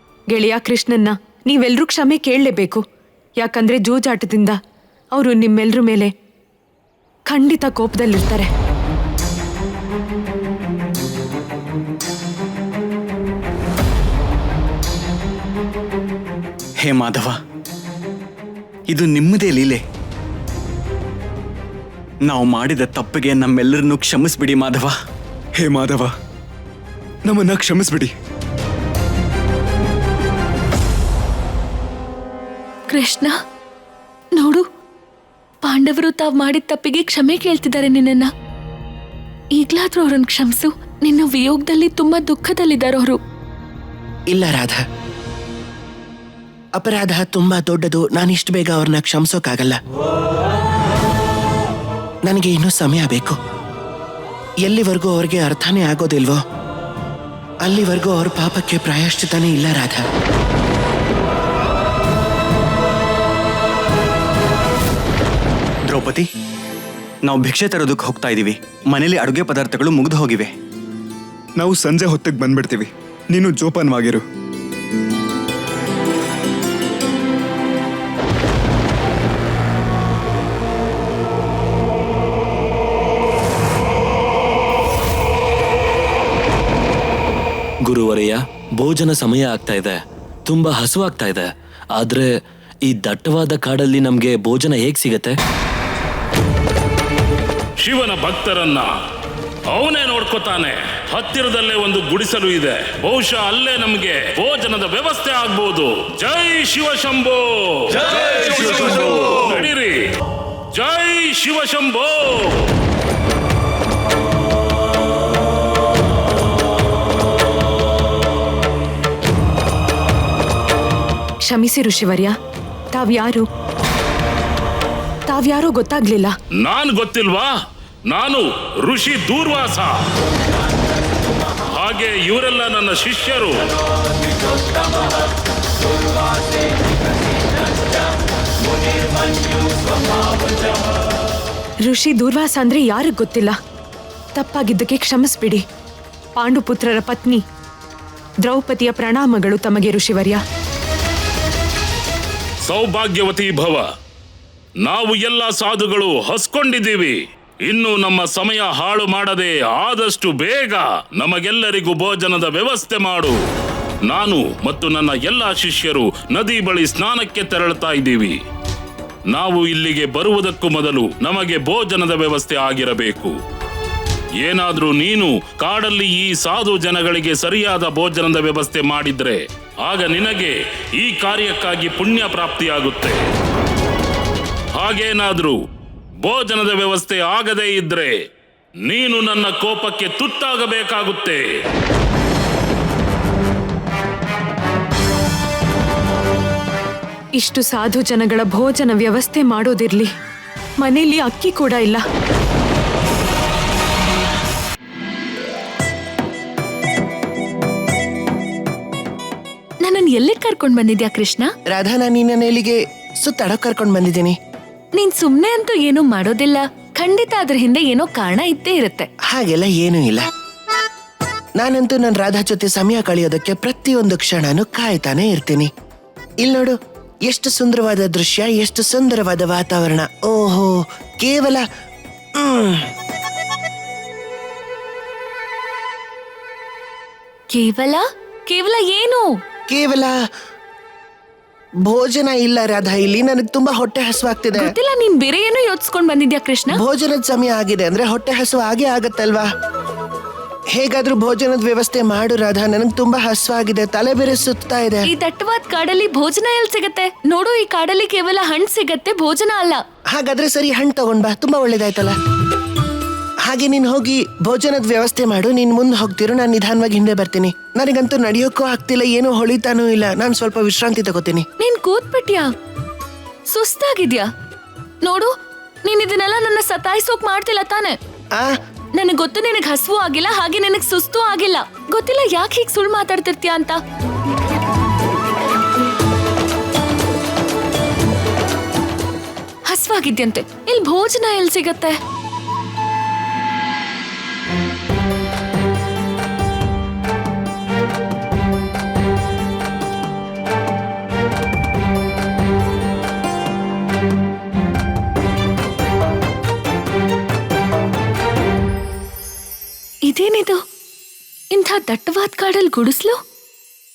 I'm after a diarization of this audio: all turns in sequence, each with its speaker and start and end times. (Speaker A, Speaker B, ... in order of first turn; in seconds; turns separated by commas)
Speaker A: 0.3-2.8, Speaker A: 3.4-4.6, Speaker A: 5.1-6.1, Speaker A: 7.3-8.5, Speaker B: 16.8-17.4, Speaker B: 18.9-19.8, Speaker B: 22.2-24.9, Speaker C: 25.6-26.1, Speaker C: 27.2-28.1, Speaker D: 32.9-33.3, Speaker D: 34.3-34.6, Speaker D: 35.6-38.3, Speaker D: 39.5-43.2, Speaker E: 44.3-44.8, Speaker E: 46.8-49.8, Speaker E: 52.2-53.4, Speaker E: 54.6-56.4, Speaker E: 57.6-60.1, Speaker B: 65.9-66.3, Speaker B: 67.2-70.5, Speaker C: 71.6-74.2, Speaker F: 87.9-92.3, Speaker F: 92.9-95.3, Speaker G: 97.8-98.9, Speaker G: 99.7-110.0, Speaker G: 110.7-112.7, Speaker A: 121.4-122.4, Speaker A: 122.9-123.5, Speaker A: 125.3-126.3, Speaker G: 126.6-127.5, Speaker G: 128.1-130.1, Speaker G: 131.7-133.7, Speaker A: 141.8-143.6, Speaker A: 144.3-145.6, Speaker A: 146.3-147.4, Speaker A: 148.4-150.4, Speaker G: 152.6-153.9, Speaker G: 154.8-163.4, Speaker G: 164.1-168.4, Speaker G: 169.3-173.3, Speaker G: 174.4-183.2, Speaker G: 184.7-185.6, Speaker G: 186.2-188.2, Speaker G: 188.8-191.4, Speaker A: 197.4-200.1, Speaker A: 200.8-202.0, Speaker D: 209.8-211.5, Speaker E: 211.7-214.4, Speaker D: 214.9-219.1, Speaker E: 219.2-220.3, Speaker E: 221.6-225.7, Speaker E: 226.4-231.6, Speaker E: 232.3-232.9, Speaker D: 237.5-239.3, Speaker E: 239.7-240.1, Speaker E: 241.8-244.7, Speaker D: 244.6-246.8, Speaker E: 246.7-249.5, Speaker E: 250.7-255.1, Speaker D: 255.0-259.8, Speaker E: 260.1-262.2, Speaker E: 263.4-271.5, Speaker D: 271.6-272.5, Speaker D: 273.5-274.3, Speaker D: 275.0-275.3, Speaker D: 275.8-278.0, Speaker D: 278.9-283.8, Speaker D: 289.7-292.0, Speaker D: 310.1-310.6, Speaker D: 311.5-313.2